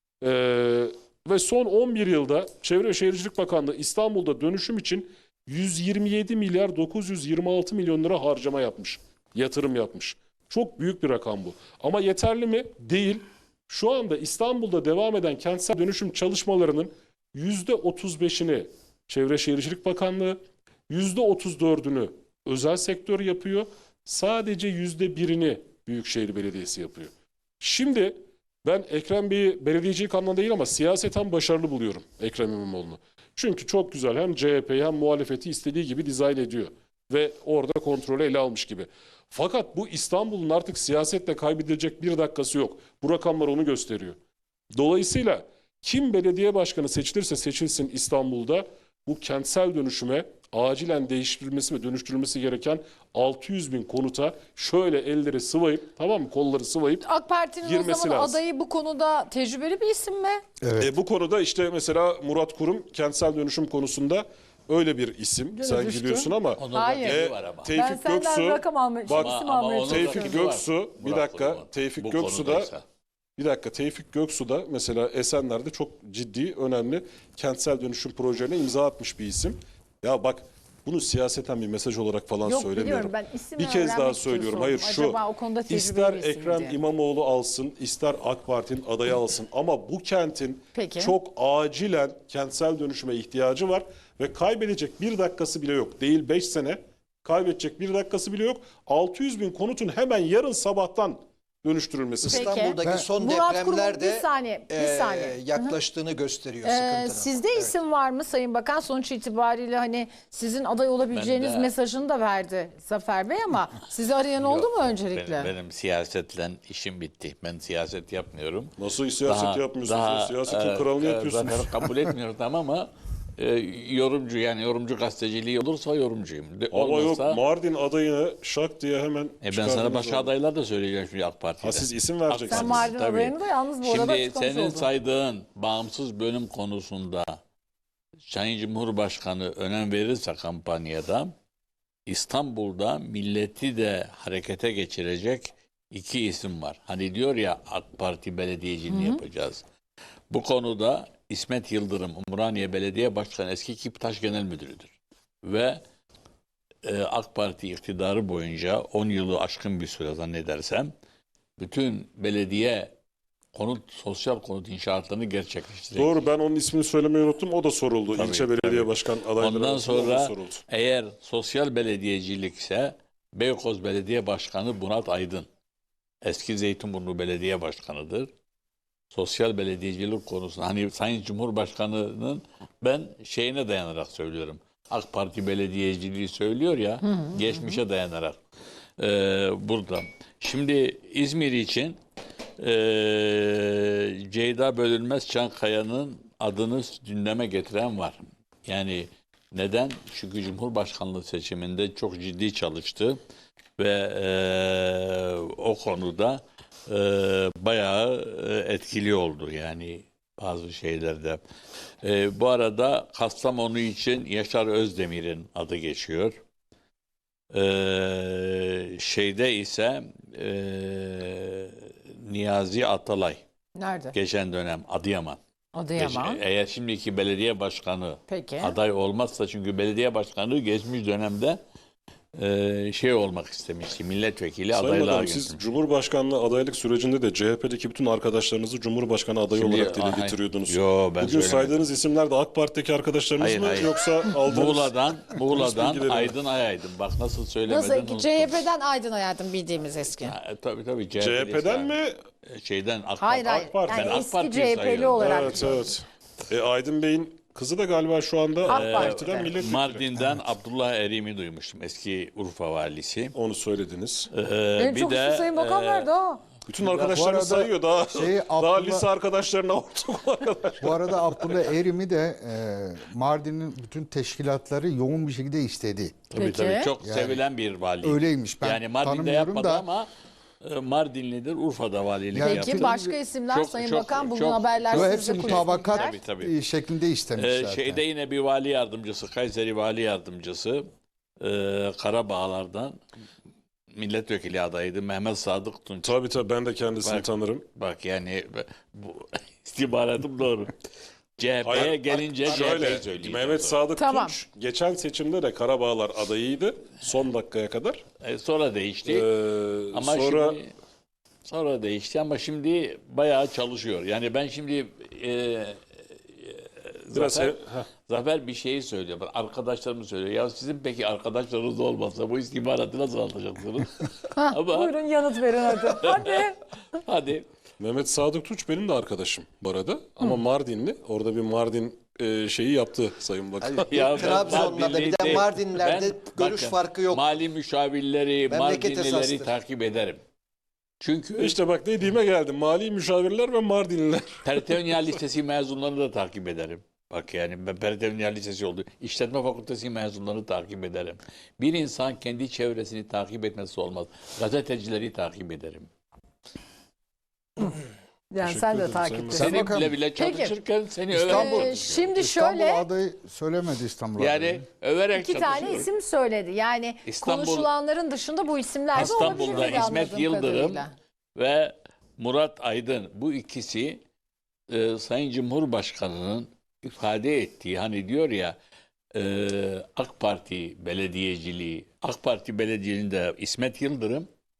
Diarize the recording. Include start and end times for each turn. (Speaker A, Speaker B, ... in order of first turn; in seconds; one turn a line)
Speaker A: 0.2-44.2
Speaker A: 44.8-57.0
Speaker B: 57.0-60.4
Speaker A: 57.6-58.4
Speaker C: 60.6-61.0
Speaker A: 60.8-72.7
Speaker B: 65.5-67.2
Speaker D: 66.6-67.8
Speaker B: 67.7-70.4
Speaker D: 69.1-72.8
Speaker A: 73.4-102.4
Speaker B: 82.5-86.8
Speaker B: 90.7-91.2
Speaker E: 102.2-107.8
Speaker B: 102.3-105.8
Speaker C: 102.8-103.1
Speaker B: 106.6-115.5
Speaker D: 111.1-111.7
Speaker D: 114.4-118.7
Speaker A: 118.8-121.7
Speaker D: 119.2-127.4
Speaker A: 126.7-130.3
Speaker D: 129.4-137.4
Speaker A: 131.6-132.9
Speaker B: 132.5-134.9
Speaker D: 138.3-141.3
Speaker D: 142.1-149.6
Speaker B: 148.9-149.2
Speaker D: 150.3-154.9
Speaker D: 155.4-155.8
Speaker D: 156.8-160.9
Speaker D: 161.6-162.9
Speaker D: 163.5-166.2
Speaker A: 165.9-170.6
Speaker D: 168.1-175.5
Speaker D: 176.2-178.3
Speaker D: 179.1-188.4
Speaker B: 187.0-187.8
Speaker D: 189.0-192.0
Speaker D: 192.6-203.2
Speaker D: 203.8-211.4
Speaker D: 212.0-216.3
Speaker D: 217.5-223.4
Speaker B: 223.8-224.2
Speaker D: 224.1-225.4
Speaker B: 225.7-226.4
Speaker D: 226.0-231.6
Speaker B: 228.3-228.8
Speaker D: 232.3-235.6
Speaker A: 234.7-245.0
Speaker D: 239.5-241.8
Speaker D: 243.4-244.0
Speaker D: 244.5-248.7
Speaker A: 245.5-246.4
Speaker B: 247.7-250.3
Speaker D: 250.2-255.7
Speaker A: 251.2-252.2
Speaker B: 253.2-255.9
Speaker A: 253.6-254.2
Speaker A: 255.2-260.1
Speaker B: 258.6-259.5
Speaker D: 258.7-263.3
Speaker A: 263.3-264.3
Speaker D: 264.3-266.1
Speaker B: 264.8-266.4
Speaker A: 266.7-271.7
Speaker D: 266.8-267.2
Speaker C: 267.1-269.1
Speaker C: 270.8-276.2
Speaker D: 276.3-280.1
Speaker B: 276.4-276.9
Speaker C: 277.0-277.4
Speaker C: 278.0-279.9
Speaker D: 280.6-282.9
Speaker C: 282.3-283.2
Speaker B: 282.4-286.2
Speaker D: 283.5-286.6
Speaker C: 284.9-288.0
Speaker D: 287.4-290.8
Speaker D: 291.4-293.0
Speaker D: 293.9-296.2
Speaker A: 296.0-297.6
Speaker D: 297.0-300.7
Speaker D: 301.4-303.8
Speaker A: 301.6-308.0
Speaker B: 304.0-304.4
Speaker D: 308.2-309.3
Speaker A: 309.1-310.6
Speaker D: 309.9-310.7
Speaker D: 311.5-315.8
Speaker D: 316.3-325.0
Speaker A: 317.1-317.9
Speaker B: 324.4-326.6
Speaker D: 325.8-326.5
Speaker D: 327.0-327.5
Speaker A: 327.8-334.7
Speaker E: 333.6-337.3
Speaker D: 333.9-340.2
Speaker E: 338.5-339.5
Speaker D: 341.0-341.6
Speaker A: 341.4-344.6
Speaker D: 344.4-355.9
Speaker B: 358.3-360.5
Speaker A: 358.4-359.5
Speaker C: 359.3-360.0
Speaker D: 359.4-362.1
Speaker C: 361.1-364.6
Speaker B: 361.2-362.9
Speaker D: 364.2-365.9
Speaker B: 365.1-370.9
Speaker D: 367.1-367.7
Speaker D: 368.9-370.9
Speaker D: 371.4-374.0
Speaker D: 374.7-378.6
Speaker D: 379.1-384.3